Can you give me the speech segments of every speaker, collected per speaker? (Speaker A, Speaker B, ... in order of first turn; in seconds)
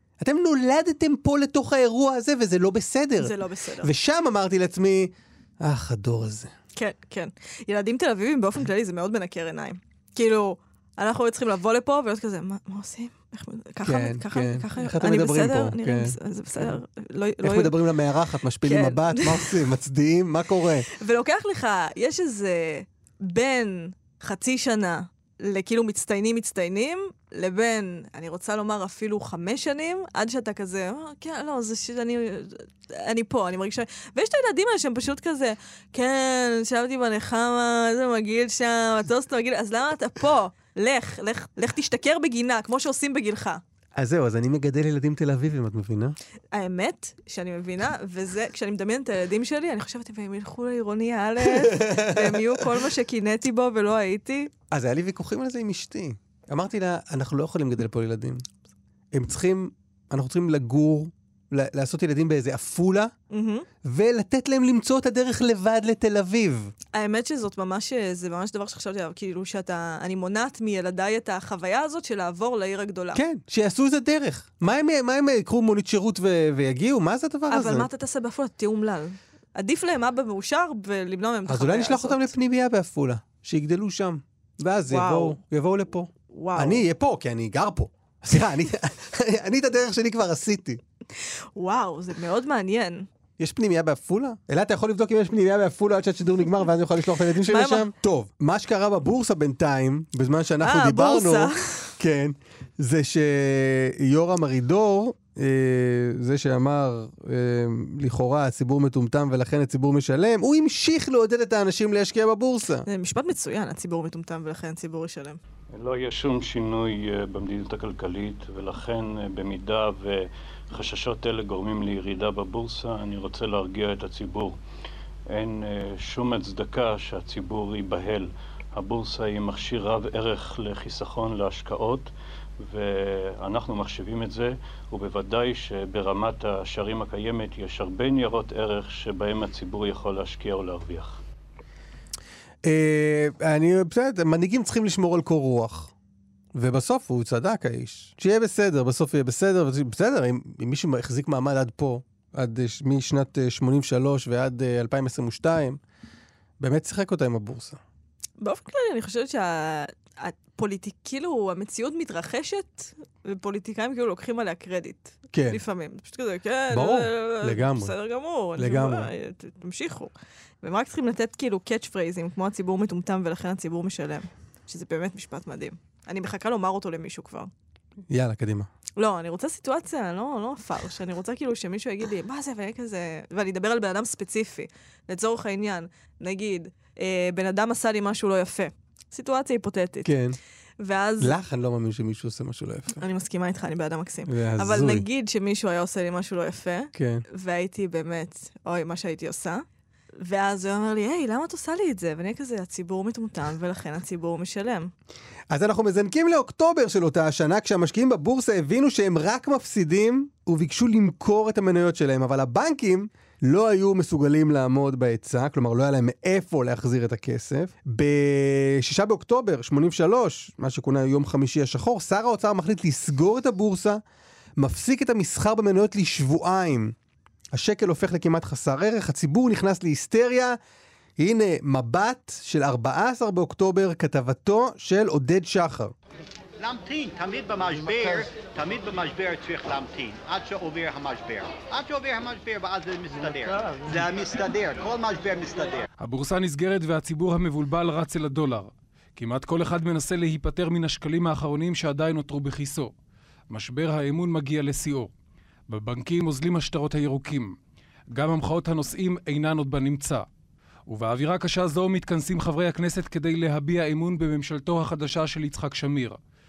Speaker A: 0.2-6.5, 13.8-16.7, 17.4-20.9, 44.0-46.2, 51.5-52.4, 54.7-58.5, 59.1-63.1, 63.8-66.7, 73.1-77.9, 81.5-90.8, 93.4-112.9, 142.6-145.9, 146.5-155.8, 156.6-157.8, 165.3-165.6, 166.7-167.9, 168.6-169.1, 178.1-178.7, 190.1-190.4, 191.2-193.0, 194.3-195.1, 196.9-197.2, 205.5-224.0, 224.6-226.9, 227.5-230.6, 231.2-235.9
Speaker B: 3.2-3.9, 6.8-17.8, 18.6-19.6, 20.9-43.6, 46.5-54.5, 63.3-63.7, 66.9-73.2, 77.5-82.3, 84.9-85.4, 86.3-86.8, 91.6-93.1, 97.4-97.9, 100.6-101.9, 112.9-115.4, 158.4-177.5, 179.0-190.1, 190.8-191.3, 193.0-199.7, 200.2-204.9
Speaker C: 115.7-124.6, 125.3-141.2
Speaker D: 236.6-245.9
Speaker E: 246.0-252.9, 253.5-255.1, 255.7-257.6, 258.1-260.3, 260.9-266.2